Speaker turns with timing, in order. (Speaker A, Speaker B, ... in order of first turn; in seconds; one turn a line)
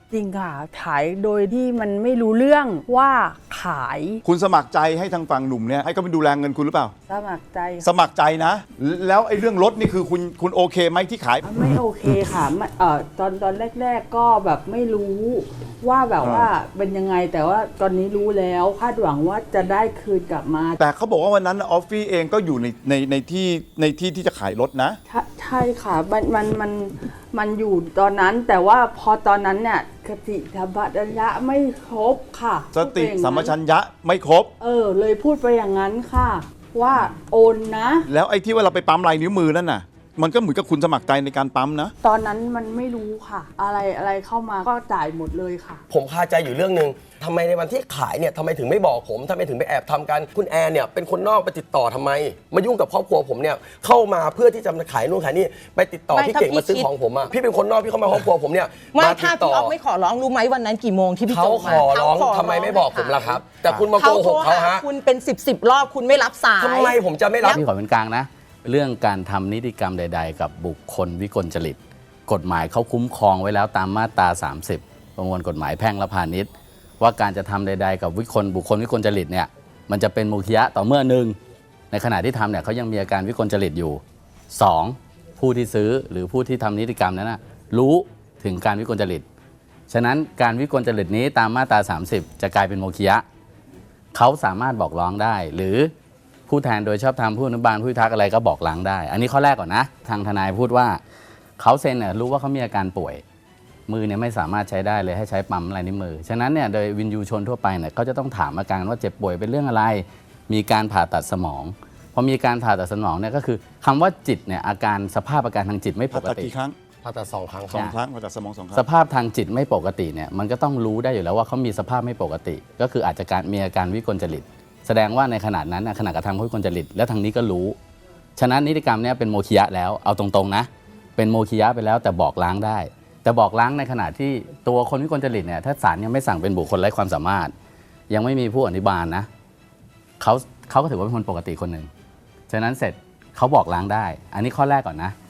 Speaker A: 0.1-4.2
Speaker B: 4.2-6.9
Speaker A: 7.1-7.9
Speaker B: 7.8-11.5
Speaker A: 11.4-20.8
Speaker B: 16.2-16.5
Speaker B: 20.8-25.0
Speaker A: 25.1-33.5
Speaker B: 32.7-34.5
Speaker A: 34.6-38.0
Speaker B: 38.1-41.9
Speaker A: 42.0-45.8
Speaker C: 45.9-59.7
Speaker D: 56.1-56.9
Speaker D: 58.9-67.6
Speaker C: 61.3-64.9
Speaker C: 66.6-67.6
Speaker E: 67.4-76.5
Speaker E: 77.0-81.4
Speaker E: 81.9-89.2
Speaker E: 89.9-93.2
Speaker E: 94.1-95.9
Speaker E: 96.5-101.0
Speaker E: 101.6-103.2
Speaker E: 103.9-116.5
Speaker B: 116.1-116.8
Speaker C: 117.0-117.9
Speaker B: 117.7-118.8
Speaker E: 118.7-127.8
Speaker E: 128.4-137.5
Speaker E: 138.1-139.3
Speaker E: 140.2-141.9
Speaker E: 142.5-145.1